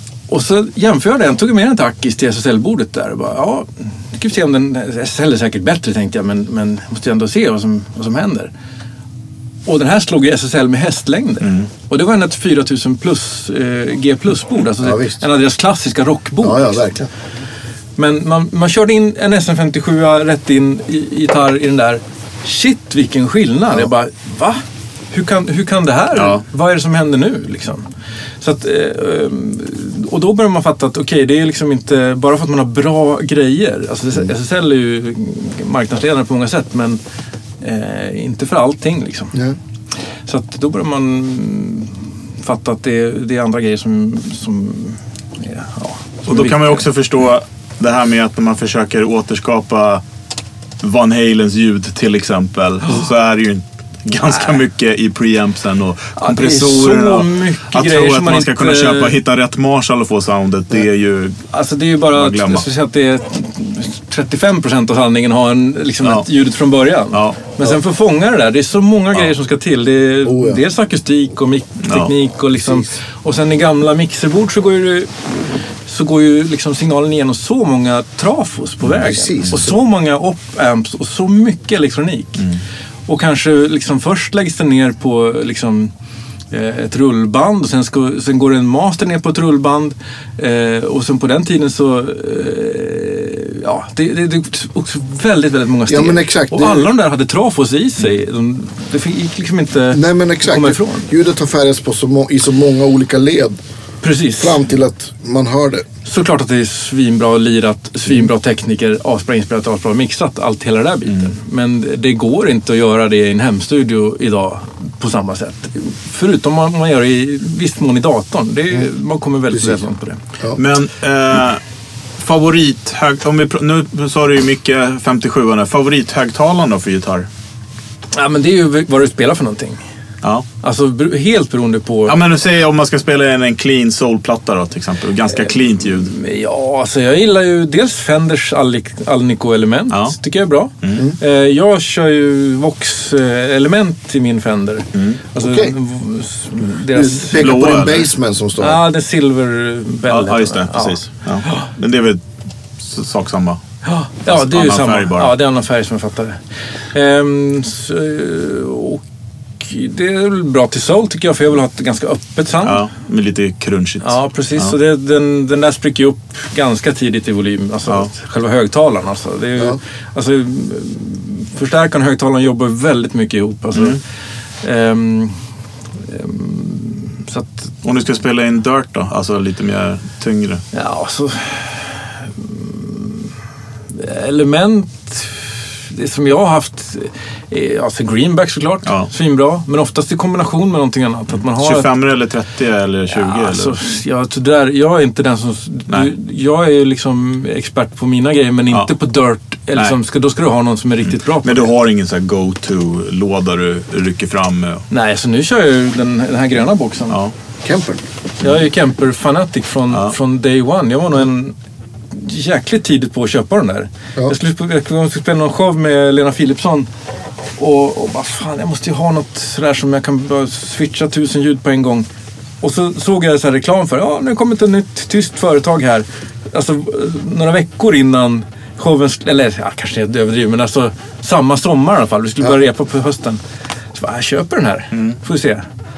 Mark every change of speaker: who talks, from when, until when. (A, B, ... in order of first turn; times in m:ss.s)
0:00.3-0:08.5 A
0:09.6-0:16.9 A
0:11.4-0:11.7 B
0:14.8-0:15.2 C
0:16.4-0:17.1 C
0:18.0-0:27.9 A
0:26.1-0:26.4 B
0:28.4-0:37.0 A
0:37.6-0:39.4 A
0:40.3-0:46.8 A
0:46.2-0:50.0 B
0:50.8-1:01.4 B
0:56.2-0:59.2 A
1:01.5-1:22.5 A
1:02.1-1:02.7 B
1:07.1-1:07.4 B
1:10.2-1:10.6 C
1:11.8-1:12.1 B
1:12.6-1:12.8 C
1:19.0-1:19.7 C
1:23.1-1:25.9 A
1:26.5-1:41.1 A
1:35.9-1:36.9 C
1:39.9-1:43.6 C
1:44.0-1:44.6 A
1:44.4-1:45.8 C
1:46.0-2:00.2 A
2:00.5-2:01.6 B
2:02.2-2:07.3 B
2:08.1-2:09.8 A
2:10.6-2:12.2 A
2:12.1-2:16.1 B
2:16.0-2:27.7 A
2:19.9-2:20.2 B
2:20.8-2:21.1 B
2:24.9-2:25.2 B
2:25.4-2:25.7 C
2:26.9-2:28.8 C
2:27.4-2:28.1 B
2:28.6-2:31.7 A
2:30.1-2:32.2 B
2:32.8-2:33.6 B
2:33.8-2:36.4 A
2:34.3-2:35.3 B
2:36.9-2:39.0 A
2:39.6-2:42.8 A
2:42.6-2:44.7 B
2:44.0-2:54.0 A
2:54.6-2:55.4 A
2:56.1-2:57.7 A
2:57.8-3:00.6 B
3:00.7-3:03.3 A
3:03.9-3:11.9 A
3:11.6-3:13.8 B
3:13.1-3:21.7 A
3:21.0-3:24.8 B
3:24.9-3:27.2 A
3:27.6-3:28.0 C
3:28.4-3:31.5 A
3:32.1-3:36.9 A
3:37.6-3:42.1 A
3:42.6-3:53.4 A
3:53.9-3:55.6 A
3:54.9-3:55.2 B